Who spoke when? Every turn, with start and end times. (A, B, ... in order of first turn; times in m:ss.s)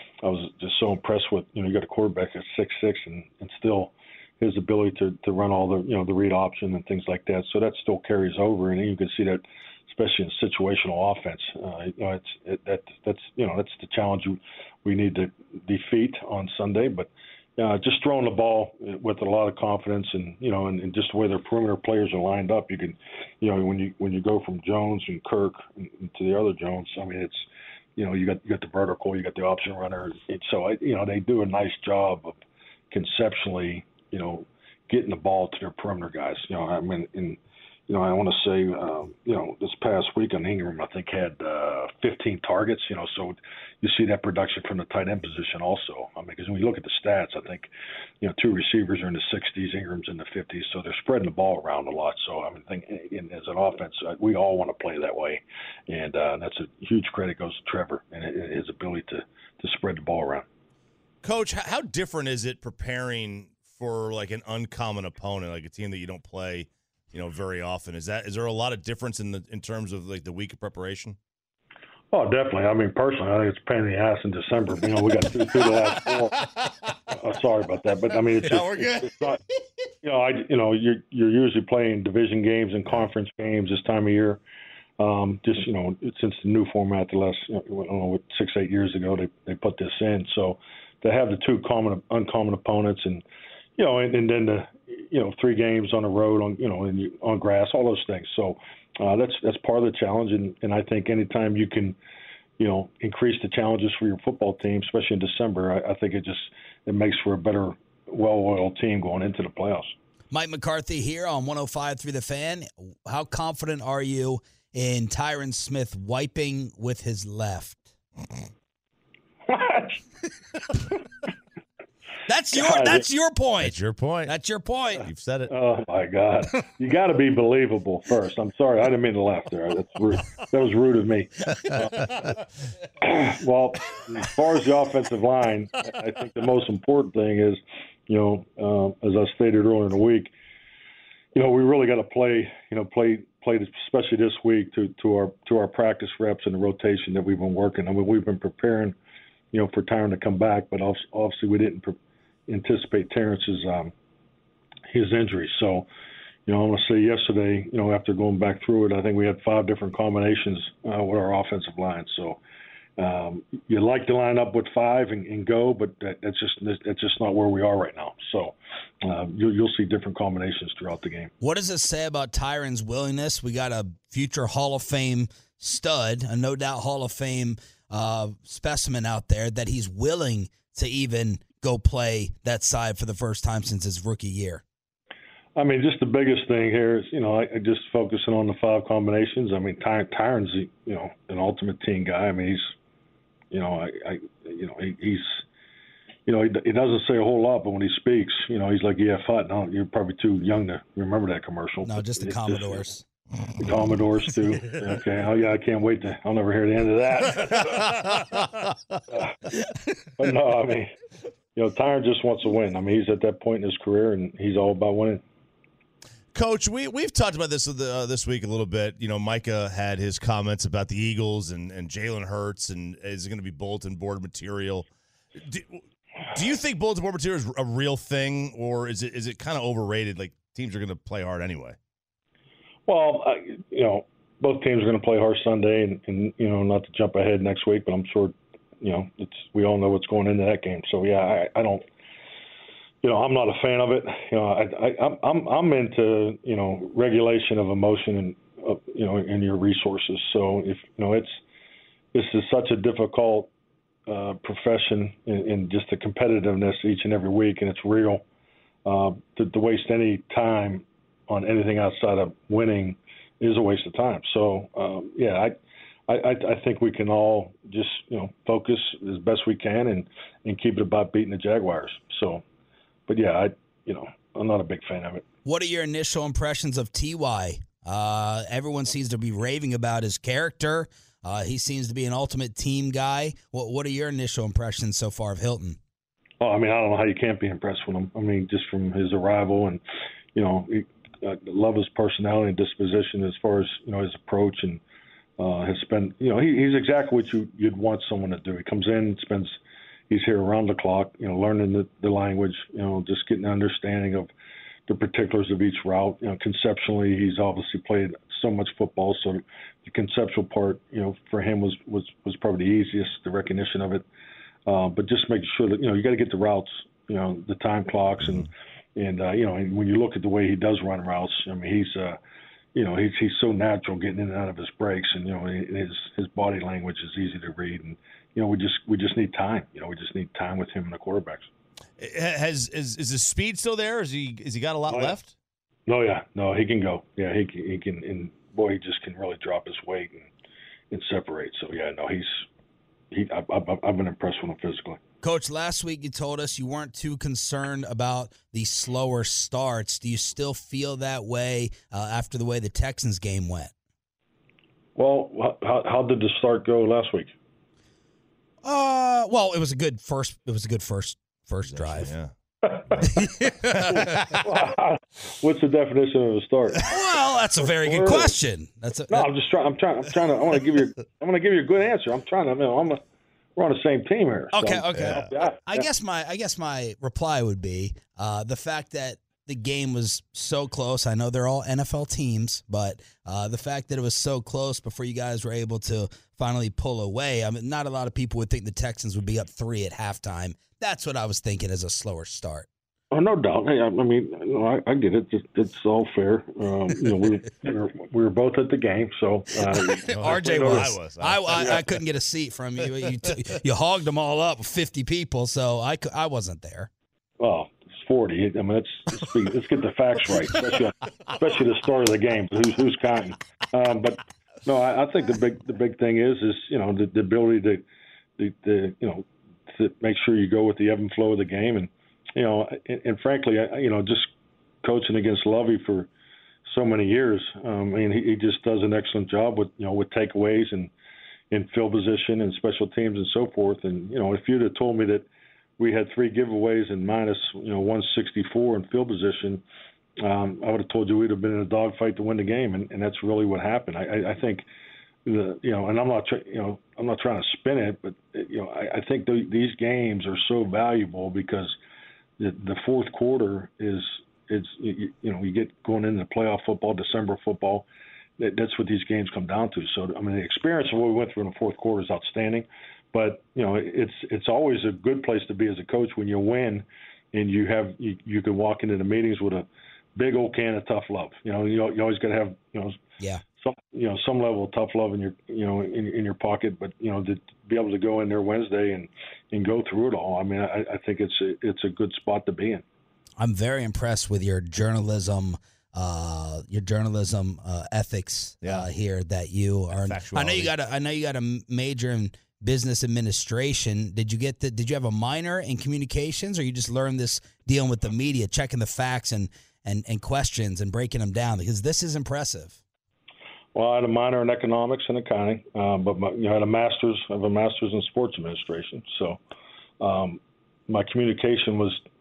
0:00.2-0:32.4 A
0:32.9-0:47.7 A
0:48.2-1:00.4 A
1:01.2-1:11.2 B
1:12.1-1:16.5 A
1:15.6-1:16.7 B
1:17.1-1:19.4 A
1:18.4-1:19.2 B
1:20.0-1:24.4 A
1:25.0-1:33.2 A
1:33.8-1:42.0 A
1:42.6-1:49.9 A
1:50.3-1:57.8 C
1:59.5-2:00.0 A
2:02.3-2:05.0 C
2:02.5-2:03.0 A
2:03.6-2:04.3 B
2:05.0-2:05.5 B
2:05.5-2:12.3 A
2:13.0-2:20.3 A
2:21.3-2:29.0 A
2:29.5-2:32.0 A
2:32.5-2:33.9 A
2:34.9-2:35.8 A
2:36.4-2:42.4 A
2:43.0-2:51.3 A
2:51.4-3:04.6 C
3:05.6-3:12.7 A
3:13.5-3:15.4 A
3:16.3-3:22.8 A
3:21.8-3:23.0 C
3:23.6-3:28.2 A
3:27.7-3:28.6 B
3:29.1-3:30.9 A
3:31.6-3:35.2 A
3:36.3-3:51.8 B
3:52.9-4:01.8 A
4:03.0-4:11.4 A
4:12.1-4:13.5 A
4:14.1-4:18.2 A
4:18.8-4:25.5 A
4:26.1-4:32.4 A
4:33.1-4:35.2 A
4:35.4-4:45.8 C
4:46.4-4:49.8 A
4:50.3-4:54.8 A
4:55.4-4:59.6 A
5:00.1-5:04.3 A
5:04.9-5:14.0 A
5:14.6-5:22.2 A
5:22.7-5:31.5 A
5:32.0-5:35.3 B
5:34.9-5:35.2 A
5:35.9-5:40.3 A
5:40.9-5:42.4 A
5:43.1-5:45.0 A
5:45.2-5:53.7 C
5:55.0-5:57.3 A
5:58.6-6:02.1 C
6:01.6-6:02.3 B
6:02.6-6:03.2 A
6:03.0-6:03.9 C
6:03.8-6:04.4 B
6:03.9-6:06.9 A
6:06.8-6:09.3 C
6:07.6-6:08.4 A
6:09.1-6:13.0 A
6:13.6-6:15.8 A
6:14.5-6:32.7 C
6:15.0-6:15.3 B
6:33.1-6:40.9 A
6:40.0-6:46.9 C
6:40.1-6:41.8 B
6:41.5-6:41.8 A
6:47.4-6:57.8 A
6:58.4-7:04.3 A
7:04.8-7:06.1 A
7:06.6-7:10.9 A
7:11.5-7:15.3 A
7:15.8-7:19.6 A
7:20.2-7:24.6 A
7:25.2-7:31.8 A
7:32.4-7:37.8 A
7:38.4-7:53.0 A
7:53.6-8:02.8 A
8:03.4-8:22.8 C
8:08.6-8:08.9 B
8:09.9-8:10.7 B
8:23.7-8:29.4 A
8:30.0-8:32.0 A